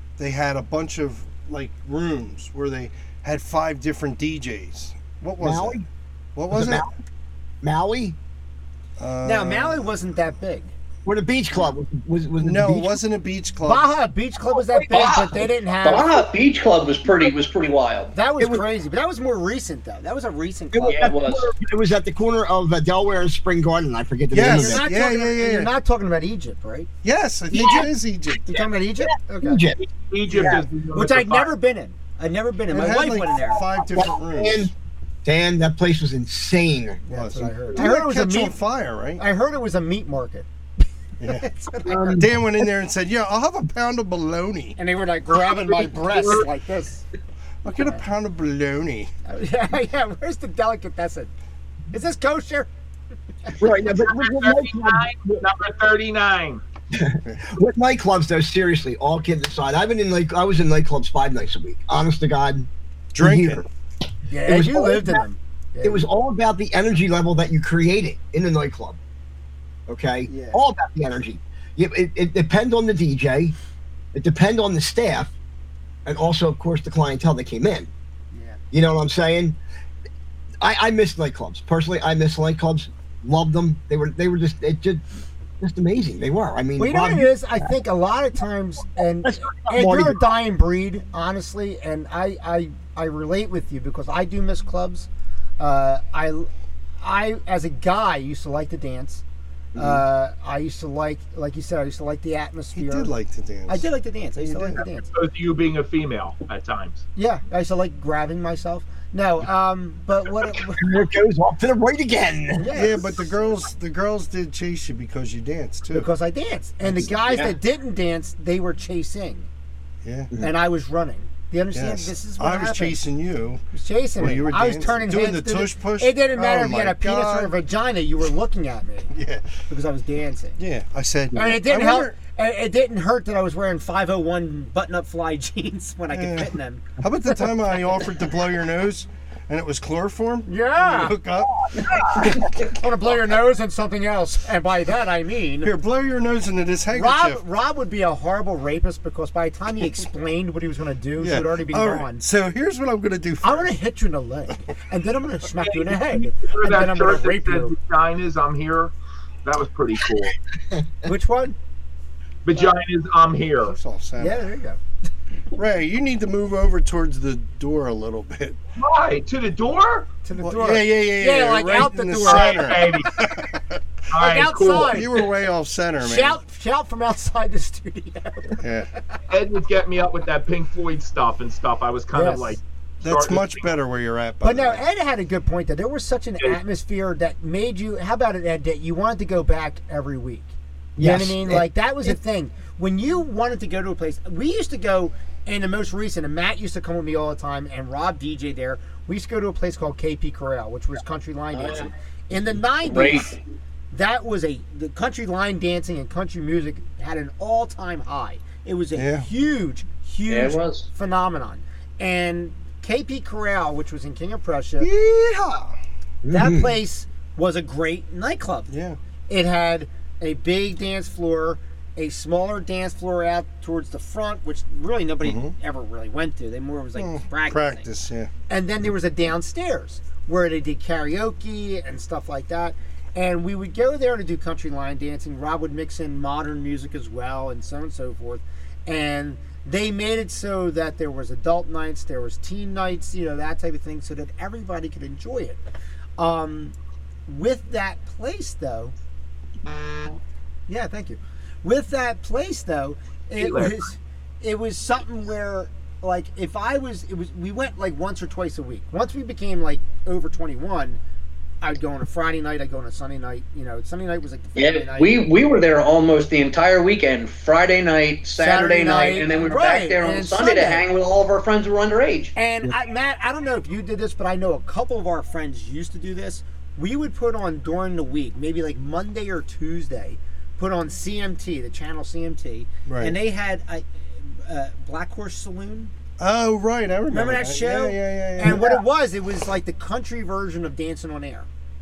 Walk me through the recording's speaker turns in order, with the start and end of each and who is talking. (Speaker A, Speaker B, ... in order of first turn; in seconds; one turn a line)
Speaker A: 0.2-5.8
Speaker B: 5.4-5.8
Speaker A: 6.3-6.8
Speaker B: 6.5-6.9
Speaker B: 7.6-8.2
Speaker A: 9.0-9.9
Speaker C: 9.2-10.7
Speaker B: 11.1-13.0
Speaker A: 12.4-13.9
Speaker C: 13.6-16.1
Speaker D: 14.8-18.1
Speaker B: 14.9-15.4
Speaker C: 18.1-21.1
Speaker B: 20.7-24.8
Speaker D: 20.9-21.5
Speaker A: 24.3-25.7
Speaker C: 24.4-26.9
Speaker A: 27.0-28.4
Speaker C: 27.5-27.8
Speaker B: 27.5-27.9
Speaker C: 28.4-29.6
Speaker B: 28.5-29.8
Speaker E: 29.8-31.5
Speaker B: 30.3-30.6
Speaker C: 30.3-33.6
Speaker A: 32.7-34.7
Speaker B: 33.7-34.7
Speaker B: 35.2-37.5
Speaker C: 37.0-38.6
Speaker A: 37.1-39.2
Speaker C: 39.2-40.5
Speaker A: 41.2-41.5
Speaker C: 41.2-42.2
Speaker B: 41.9-42.2
Speaker A: 42.2-44.8
Speaker C: 44.8-47.0
Speaker E: 45.5-46.4
Speaker A: 47.6-49.1
Speaker C: 47.7-48.0
Speaker C: 49.2-51.3
Speaker C: 51.9-52.7
Speaker B: 53.6-55.4
Speaker E: 53.8-56.6
Speaker B: 56.9-63.6
Speaker A: 63.1-63.7
Speaker C: 64.3-66.1
Speaker B: 64.5-65.2
Speaker B: 65.8-69.0
Speaker B: 69.9-73.5
Speaker C: 70.3-70.6
Speaker B: 74.1-75.3
Speaker B: 76.0-77.9
Speaker C: 78.3-78.6
Speaker B: 78.7-79.6
Speaker B: 80.6-85.0
Speaker B: 85.6-87.3
Speaker C: 86.8-95.1
Speaker B: 89.2-90.2
Speaker C: 95.6-96.5
Speaker C: 97.0-99.2
Speaker B: 99.7-100.0
Speaker C: 99.8-103.1
Speaker A: 102.7-103.9
Speaker C: 103.7-105.1
Speaker A: 104.4-104.8
Speaker E: 105.1-107.0
Speaker C: 107.2-110.8
Speaker B: 110.8-112.7
Speaker C: 112.6-113.4
Speaker A: 112.7-116.1
Speaker C: 115.9-119.5
Speaker A: 116.8-117.3
Speaker A: 120.0-120.3
Speaker C: 120.4-123.0
Speaker A: 121.7-123.6
Speaker C: 123.7-129.1
Speaker A: 124.2-127.5
Speaker A: 129.1-129.5
Speaker C: 129.7-130.6
Speaker A: 130.6-132.1
Speaker C: 131.3-136.9
Speaker A: 136.1-142.4
Speaker C: 140.5-141.2
Speaker B: 141.4-142.5
Speaker C: 142.6-145.7
Speaker A: 145.6-147.4
Speaker C: 146.9-152.2
Speaker A: 151.2-153.7
Speaker C: 153.4-157.7
Speaker E: 155.6-158.9
Speaker E: 159.4-160.3
Speaker C: 161.1-161.6
Speaker E: 162.4-163.8
Speaker A: 163.7-164.4
Speaker C: 164.2-164.8
Speaker A: 165.5-168.6
Speaker E: 168.8-170.1
Speaker C: 170.2-172.9
Speaker A: 170.4-173.8
Speaker E: 172.2-173.1
Speaker E: 174.1-175.2
Speaker C: 174.1-175.1
Speaker A: 174.8-176.4
Speaker C: 176.0-179.0
Speaker A: 178.6-178.9
Speaker E: 179.3-183.7
Speaker C: 182.1-182.6
Speaker A: 183.0-184.8
Speaker C: 184.4-203.3
Speaker B: 191.0-191.7
Speaker D: 201.5-201.9
Speaker D: 202.8-203.4
Speaker C: 203.9-214.9
Speaker A: 208.9-209.3
Speaker D: 210.3-210.9
Speaker A: 214.8-215.8
Speaker B: 216.2-216.7
Speaker C: 216.3-218.7
Speaker A: 218.7-219.0
Speaker C: 219.3-227.9
Speaker A: 225.2-225.5
Speaker A: 226.9-228.3
Speaker C: 228.5-245.6
Speaker C: 246.2-246.7
Speaker C: 247.3-248.9
Speaker C: 250.7-261.0
Speaker E: 253.4-253.8
Speaker C: 261.6-265.2
Speaker D: 264.6-272.3
Speaker C: 268.4-270.8
Speaker C: 272.4-285.9
Speaker A: 282.9-283.1
Speaker A: 286.2-288.8
Speaker C: 287.1-291.5